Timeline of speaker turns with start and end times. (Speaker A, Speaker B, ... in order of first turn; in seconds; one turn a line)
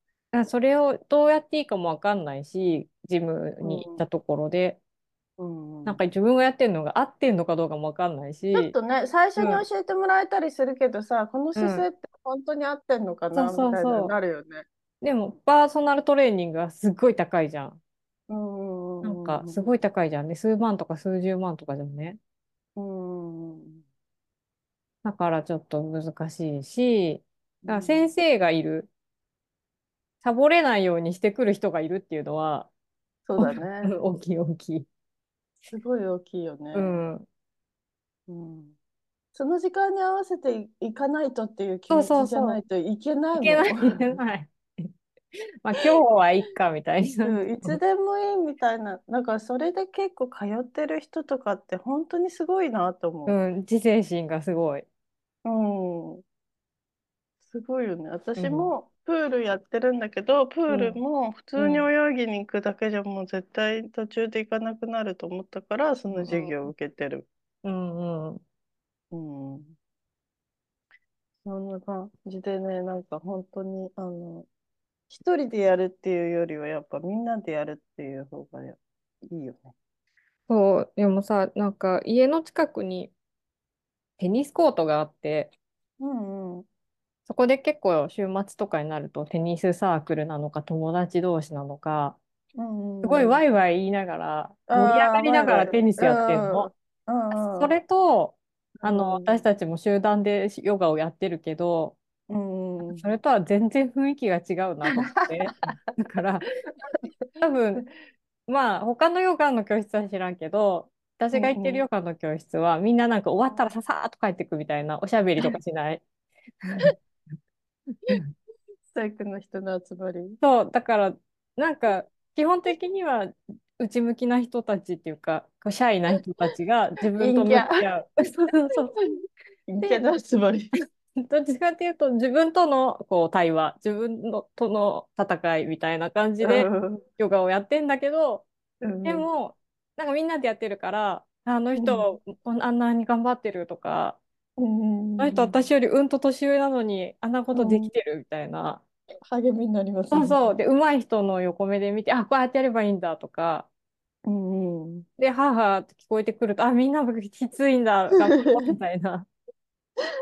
Speaker A: 0.3-4.8
Speaker B: 3.6-4.0
Speaker B: 5.4-6.0
Speaker A: 5.8-8.7
Speaker B: 8.5-14.6
Speaker A: 9.4-9.6
Speaker A: 11.6-11.8
Speaker A: 13.3-14.1
Speaker A: 15.0-17.8
Speaker B: 18.3-19.7
Speaker A: 19.0-22.2
Speaker B: 22.8-23.8
Speaker A: 25.0-28.9
Speaker B: 27.6-28.1
Speaker A: 30.2-32.7
Speaker B: 33.2-33.9
Speaker A: 33.4-34.9
Speaker B: 35.7-36.9
Speaker A: 36.7-37.3
Speaker B: 38.3-38.8
Speaker B: 39.3-44.2
Speaker A: 41.9-42.6
Speaker A: 43.4-44.9
Speaker A: 45.6-47.8
Speaker B: 47.2-53.4
Speaker A: 53.2-54.9
Speaker B: 55.4-56.2
Speaker B: 57.5-67.3
Speaker A: 58.4-58.7
Speaker A: 60.7-61.0
Speaker A: 61.6-61.9
Speaker A: 66.1-66.7
Speaker A: 67.6-68.4
Speaker B: 69.1-69.7
Speaker B: 71.4-74.5
Speaker B: 75.1-79.7
Speaker A: 80.5-83.1
Speaker A: 84.2-85.5
Speaker B: 86.0-86.7
Speaker A: 87.3-92.2
Speaker B: 92.6-93.4
Speaker A: 93.0-96.7
Speaker B: 94.7-97.7
Speaker A: 97.3-102.0
Speaker B: 98.8-99.5
Speaker B: 102.3-103.0
Speaker A: 102.9-106.5
Speaker B: 104.9-105.7
Speaker A: 107.4-107.8
Speaker A: 108.5-116.0
Speaker B: 111.3-111.8
Speaker A: 116.6-116.9
Speaker B: 118.9-120.4
Speaker A: 120.4-128.9
Speaker B: 127.2-127.8
Speaker B: 129.7-130.8
Speaker A: 131.2-138.5
Speaker B: 136.4-137.0
Speaker B: 138.8-139.3
Speaker A: 139.0-144.2
Speaker B: 141.8-142.2
Speaker B: 144.6-145.6
Speaker A: 145.2-148.8
Speaker B: 147.5-147.9
Speaker B: 149.2-150.4
Speaker A: 150.1-153.7
Speaker B: 154.2-155.1
Speaker A: 155.2-159.3